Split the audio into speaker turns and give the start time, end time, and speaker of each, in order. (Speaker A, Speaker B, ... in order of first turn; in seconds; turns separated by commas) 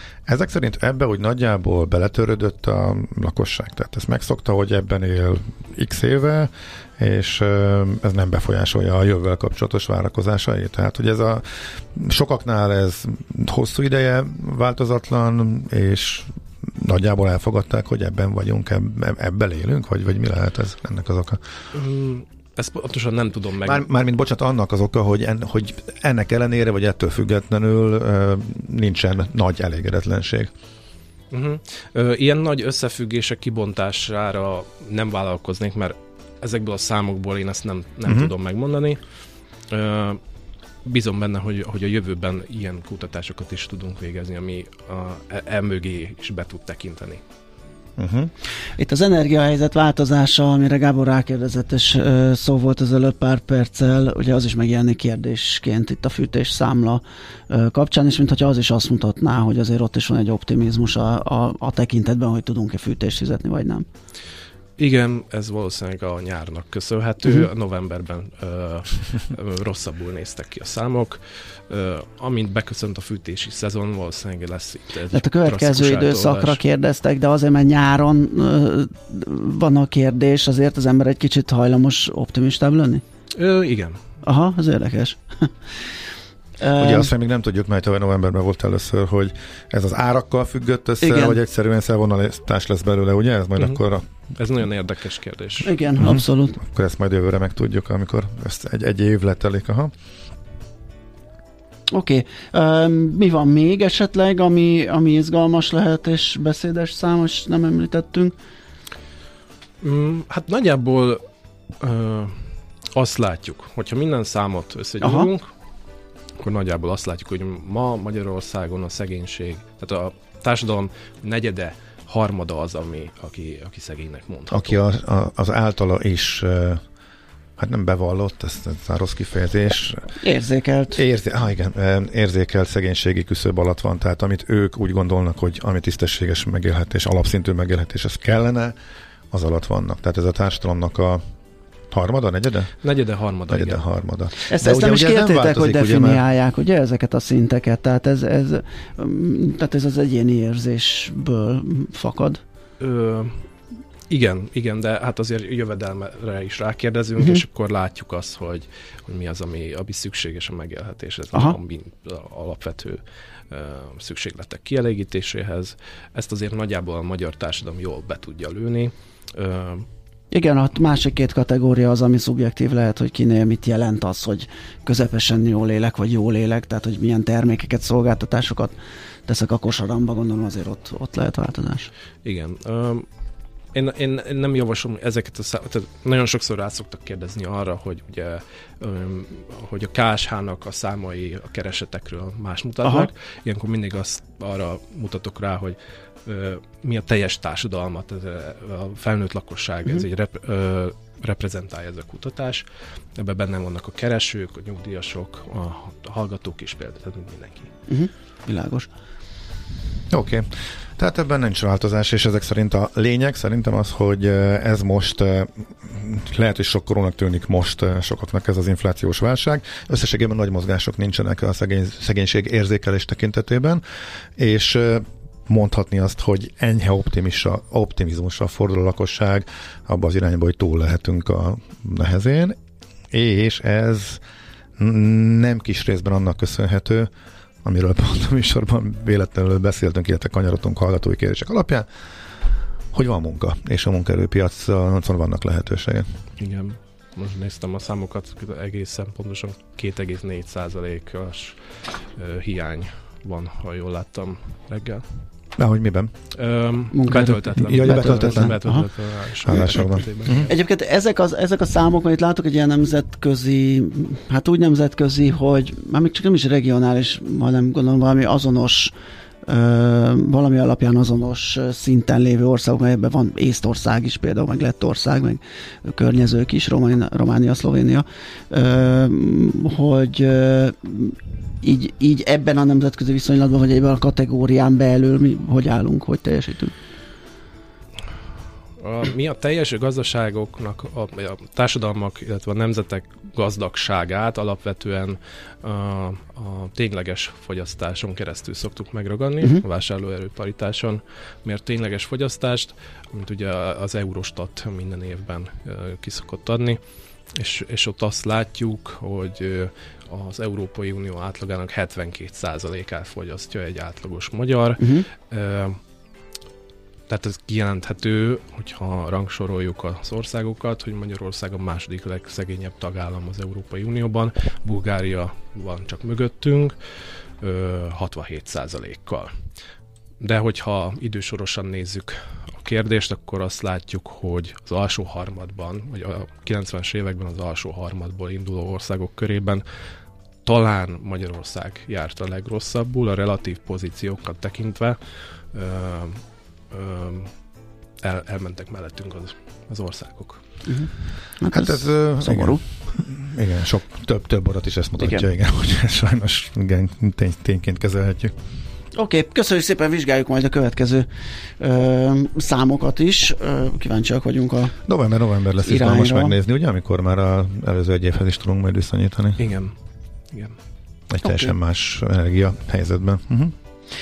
Speaker A: 0.3-21.4, Speaker B: 21.7-23.9, Speaker A: 23.6-30.5, Speaker B: 31.3-39.0, Speaker A: 38.0-38.3, Speaker B: 39.7-40.2, Speaker B: 40.8-47.2, Speaker A: 48.0-48.3, Speaker C: 48.8-63.9, Speaker B: 64.8-76.6, Speaker C: 75.1-83.0, Speaker B: 83.3-84.0, Speaker C: 84.2-85.7, Speaker C: 86.6-87.1, Speaker A: 86.8-94.0, Speaker C: 91.0-91.4, Speaker B: 94.3-95.7, Speaker C: 95.6-96.6, Speaker A: 96.0-99.9, Speaker C: 101.9-108.3, Speaker B: 109.8-111.2, Speaker B: 111.8-112.4, Speaker B: 112.9-115.5, Speaker C: 115.0-115.3, Speaker B: 116.4-124.8, Speaker A: 124.5-126.8, Speaker A: 127.6-130.1, Speaker C: 130.2-131.0, Speaker A: 130.9-138.7, Speaker A: 139.3-141.2, Speaker A: 141.9-142.8, Speaker B: 142.8-143.8, Speaker A: 143.5-146.2, Speaker C: 144.5-152.4, Speaker B: 152.8-153.4, Speaker B: 154.1-169.9, Speaker C: 157.2-157.4, Speaker C: 170.3-178.7, Speaker C: 179.3-181.9, Speaker B: 182.2-183.1, Speaker B: 183.7-202.6, Speaker B: 203.2-207.7, Speaker C: 207.9-208.9, Speaker A: 210.1-223.8, Speaker A: 224.4-232.6, Speaker A: 233.1-234.2, Speaker A: 234.8-237.1, Speaker A: 237.6-241.9, Speaker A: 242.9-246.2, Speaker B: 246.4-255.1, Speaker A: 255.6-256.1, Speaker B: 256.3-260.5, Speaker C: 256.9-258.8, Speaker A: 257.6-258.6, Speaker A: 259.4-260.5, Speaker C: 260.4-268.9, Speaker C: 269.4-286.7, Speaker B: 288.8-306.8, Speaker B: 307.3-315.8, Speaker C: 314.8-315.1, Speaker B: 317.1-326.8, Speaker B: 327.4-329.3, Speaker B: 330.2-339.6, Speaker B: 340.4-347.3, Speaker B: 348.0-350.4, Speaker C: 350.7-352.6, Speaker A: 351.5-358.3, Speaker C: 358.9-361.1, Speaker C: 361.6-364.7, Speaker A: 364.9-369.5, Speaker C: 365.6-366.3, Speaker B: 369.4-369.7, Speaker A: 371.1-373.5, Speaker C: 371.2-371.5